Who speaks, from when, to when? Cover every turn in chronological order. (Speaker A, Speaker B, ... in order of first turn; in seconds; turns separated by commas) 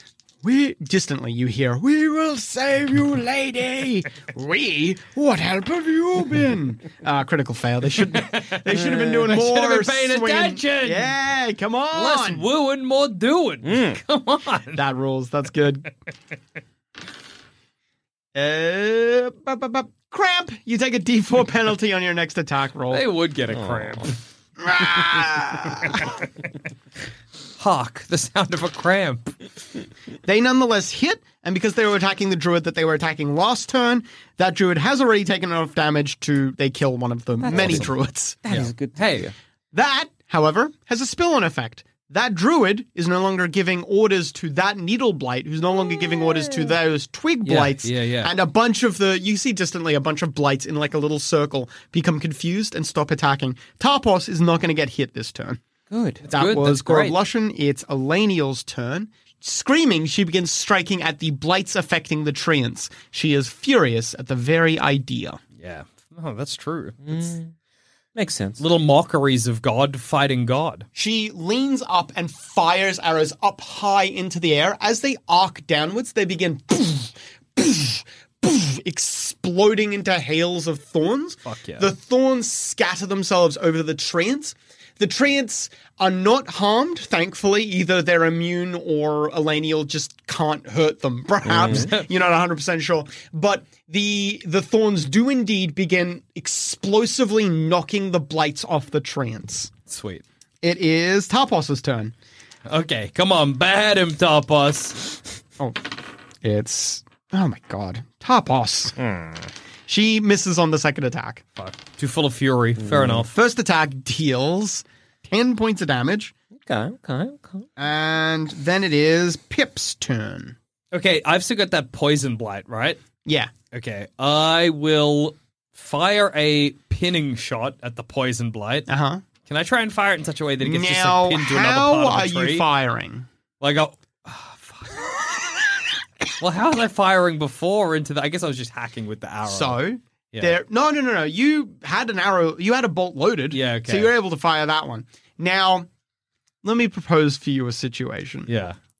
Speaker A: 0.4-12.5, Speaker B: 8.1-11.1, Speaker B: 11.9-14.8, Speaker C: 13.6-14.0, Speaker A: 14.7-15.9, Speaker A: 18.4-23.1, Speaker B: 22.9-24.2, Speaker C: 23.5-24.1, Speaker A: 24.6-26.1, Speaker B: 27.6-29.4, Speaker A: 30.2-38.4, Speaker C: 37.4-37.9, Speaker C: 38.5-39.3, Speaker B: 38.5-39.3, Speaker A: 39.7-55.6, Speaker C: 46.3-46.7, Speaker B: 47.5-48.3, Speaker C: 55.9-56.2, Speaker B: 56.2-57.2, Speaker A: 56.3-65.4, Speaker B: 65.6-67.0, Speaker C: 67.0-67.5, Speaker C: 68.2-68.6, Speaker B: 68.6-70.9, Speaker A: 71.0-99.7, Speaker B: 81.5-81.9, Speaker C: 91.5-91.9, Speaker B: 91.7-92.1, Speaker B: 99.9-100.2, Speaker A: 100.6-102.1, Speaker B: 102.7-105.2, Speaker A: 105.6-105.9, Speaker A: 106.4-109.0, Speaker C: 109.0-109.5, Speaker A: 109.9-111.4, Speaker B: 111.6-113.3, Speaker C: 112.8-113.2, Speaker A: 113.1-116.3, Speaker C: 116.6-117.7, Speaker A: 117.8-120.6, Speaker B: 120.9-123.0, Speaker A: 123.2-123.5, Speaker B: 123.7-128.9, Speaker A: 128.9-129.2, Speaker B: 129.5-132.7, Speaker A: 130.6-133.3, Speaker B: 133.6-135.2, Speaker B: 136.4-139.8, Speaker A: 139.5-145.9, Speaker B: 143.5-144.1, Speaker A: 146.6-148.5, Speaker B: 148.5-148.8